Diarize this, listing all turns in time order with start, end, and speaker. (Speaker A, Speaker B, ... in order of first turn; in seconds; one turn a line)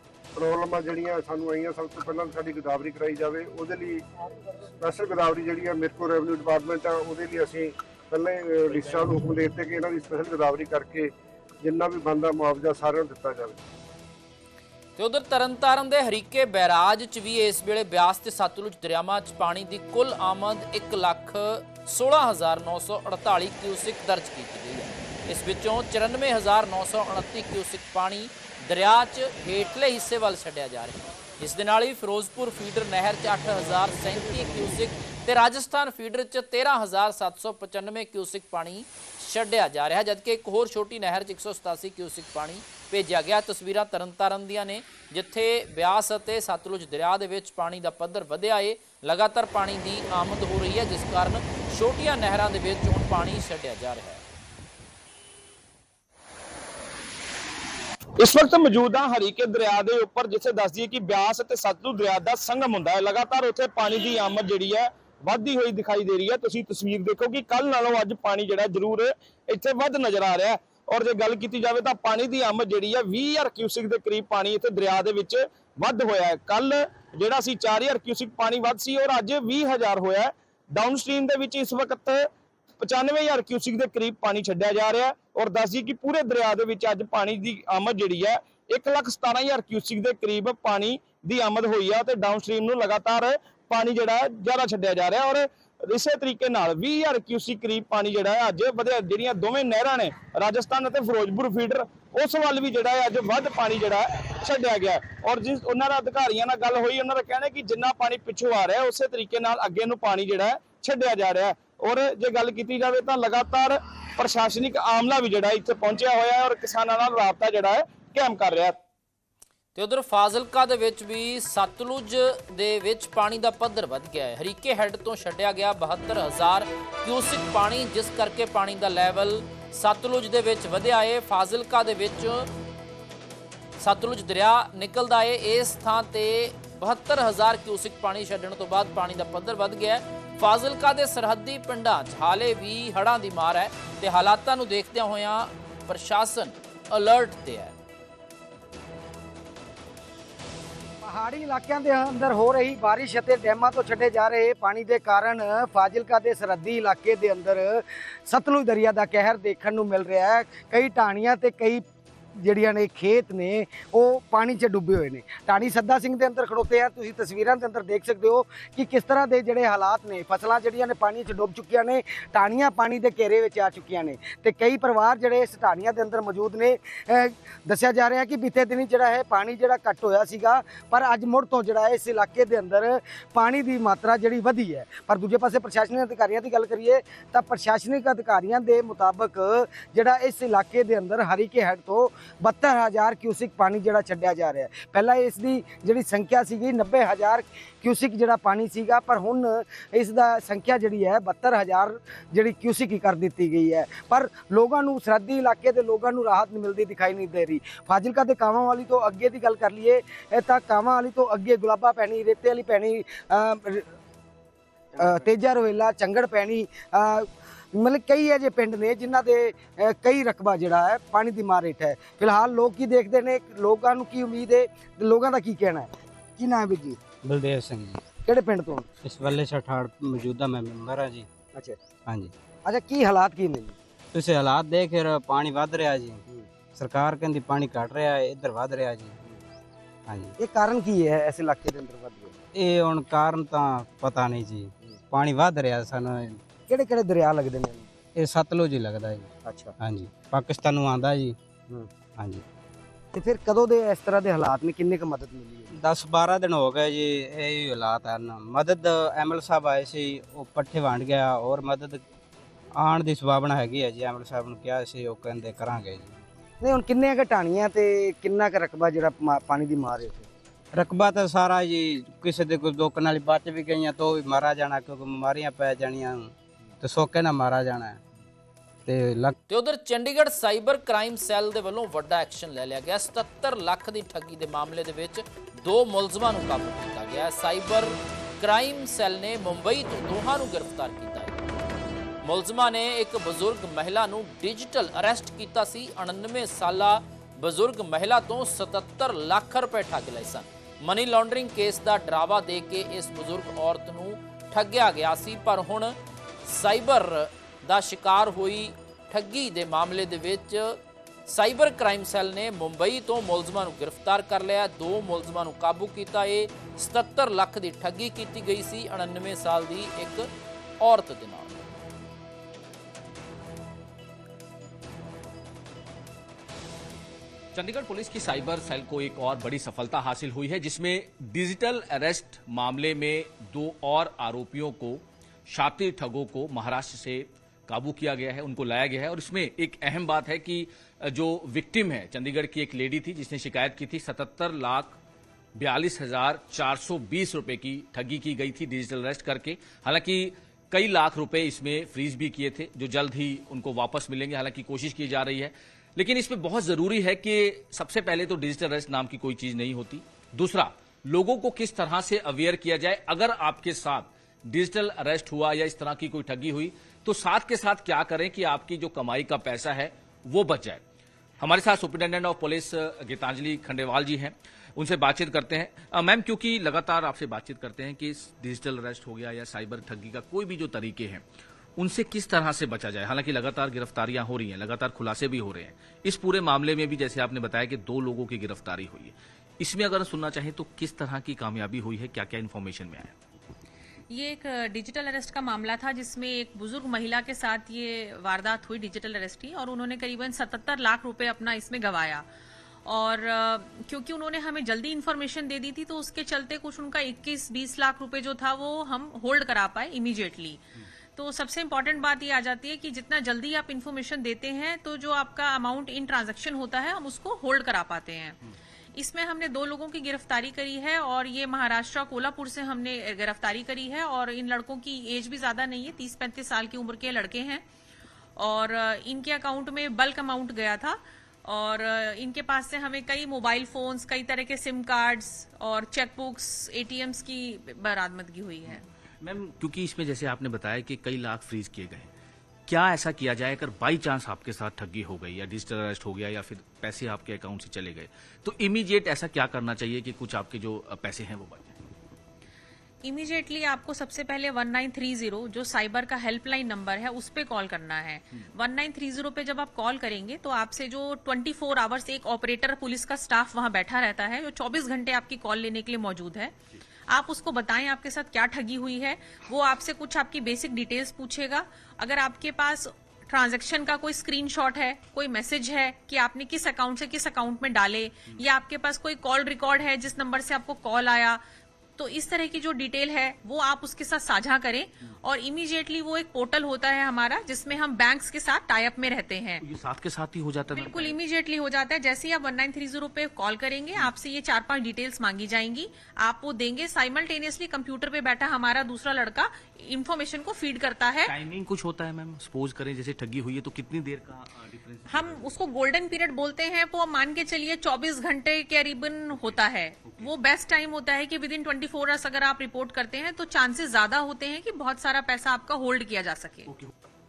Speaker A: 0.4-4.0
Speaker A: 4.8-11.1
Speaker A: 11.6-13.6
Speaker B: 15.0-54.2
Speaker C: 58.2-82.3
Speaker C: 82.8-118.8
Speaker B: 119.8-132.5
Speaker B: 133.8-147.8
Speaker D: 151.0-161.8
Speaker D: 162.4-213.8
Speaker D: 215.0-227.0
Speaker E: 227.2-228.0
Speaker D: 228.2-228.9
Speaker E: 229.0-231.3
Speaker D: 232.7-233.8
Speaker E: 234.1-236.2
Speaker E: 236.8-239.2
Speaker E: 240.1-240.3
Speaker D: 240.4-242.3
Speaker E: 242.6-246.4
Speaker D: 246.7-247.9
Speaker E: 248.2-251.4
Speaker D: 249.4-249.7
Speaker E: 252.2-252.4
Speaker D: 253.1-255.7
Speaker E: 255.8-262.0
Speaker E: 262.8-266.1
Speaker D: 266.6-270.3
Speaker E: 270.8-278.0
Speaker E: 278.9-279.4
Speaker B: 279.5-291.4
Speaker B: 292.2-320.3
Speaker B: 320.8-321.6
Speaker F: 327.5-345.0
Speaker F: 345.6-370.8
Speaker F: 371.4-381.2
Speaker F: 381.8-393.1
Speaker G: 394.1-402.2
Speaker G: 402.9-410.6
Speaker G: 411.2-418.4
Speaker G: 419.0-427.6
Speaker G: 428.4-438.9
Speaker F: 438.7-442.1
Speaker F: 442.7-451.8
Speaker G: 453.0-466.5
Speaker G: 467.1-481.4
Speaker G: 482.0-489.6
Speaker F: 489.6-491.2
Speaker G: 490.7-501.3
Speaker F: 501.2-505.5
Speaker G: 505.1-516.7
Speaker F: 509.3-510.3
Speaker F: 516.7-516.9